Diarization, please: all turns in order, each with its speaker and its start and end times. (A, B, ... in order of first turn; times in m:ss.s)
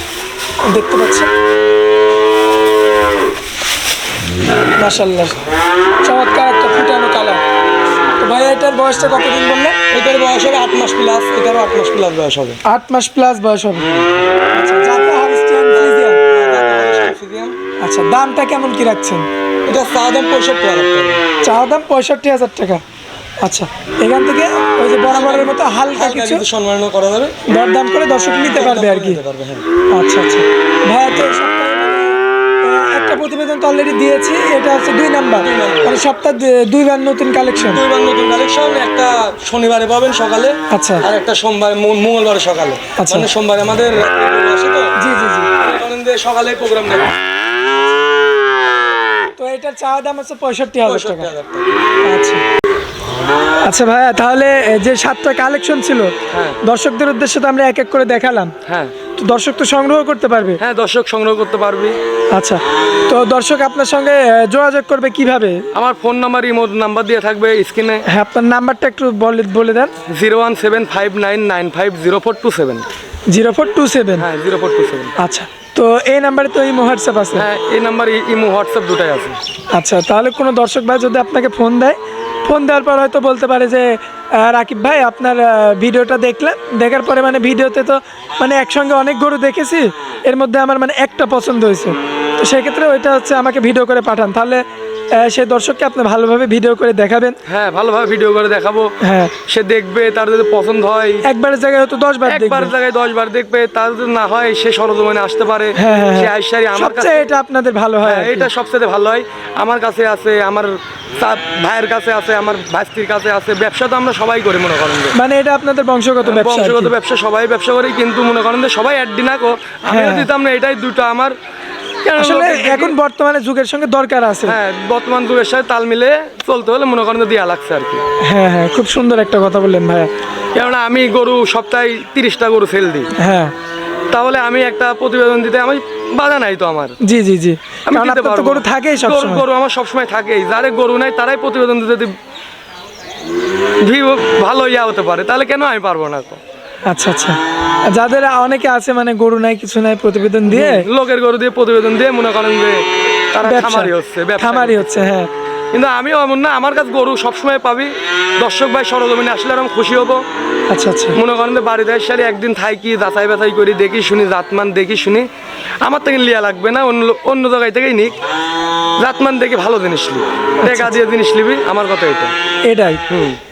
0:00.7-0:01.3 A
0:04.8-0:05.4 A
0:06.0-0:07.4 A
0:08.2-0:09.8 A
0:09.9-0:12.6 B
0:12.7-0:13.9 A
0:14.5-0:16.2 A
0:15.7-0:17.5 B
0:17.8-0:19.3 A
0:19.7-0:21.2 B
0:21.4-0:22.8 A
0:23.4-0:26.4 A
0:25.1-0:27.4 B
0:27.5-0:29.2 A
0:28.4-0:29.6 B
0:29.9-0:37.8 A
0:35.4-0:36.0 B
0:37.6-0:45.0 B
0:40.7-0:41.0 A
0:43.0-0:43.3 A
0:45.0-0:45.5 A
0:45.6-0:47.1 B
0:49.4-0:51.3 A
0:50.8-0:51.7 B
0:52.0-0:52.4 A
0:53.6-0:58.6 A
0:56.3-0:56.6 B
0:58.6-0:58.9 B
0:59.2-1:00.6 A
1:00.6-1:02.0 B
1:02.3-1:05.6 A
1:05.7-1:08.0 B
1:08.1-1:09.9 A
1:10.1-1:12.8 B
1:13.3-1:14.3 A
1:14.2-1:15.1 B
1:15.2-1:17.5 A
1:17.4-1:19.4 B
1:19.7-1:34.6 A
1:35.2-1:37.4 A
1:37.5-1:38.9 B
1:39.0-1:39.3 A
1:39.5-1:41.2 B
1:41.2-1:42.7 A
1:42.2-1:47.2 B
1:45.8-1:48.5 A
1:48.0-1:55.1 B
1:55.1-1:56.9 A
1:56.2-2:01.4 B
1:59.9-2:00.3 A
2:02.0-2:03.0 B
2:02.2-2:04.6 A
2:04.5-2:08.0 B
2:08.2-2:10.1 A
2:10.6-2:13.1 B
2:13.2-2:13.5 A
2:14.1-2:17.0 B
2:17.0-2:19.4 A
2:17.9-2:22.1 B
2:23.8-2:26.4 B
2:26.9-2:27.4 A
2:27.9-2:30.9 A
2:30.5-2:35.1 B
2:33.4-2:35.3 A
2:35.7-2:40.2 B
2:40.7-2:41.2 A
2:41.1-2:45.3 B
2:45.8-2:48.2 B
2:49.0-2:52.3 B
2:50.6-2:51.0 A
2:52.6-2:53.0 A
2:53.1-2:53.4 B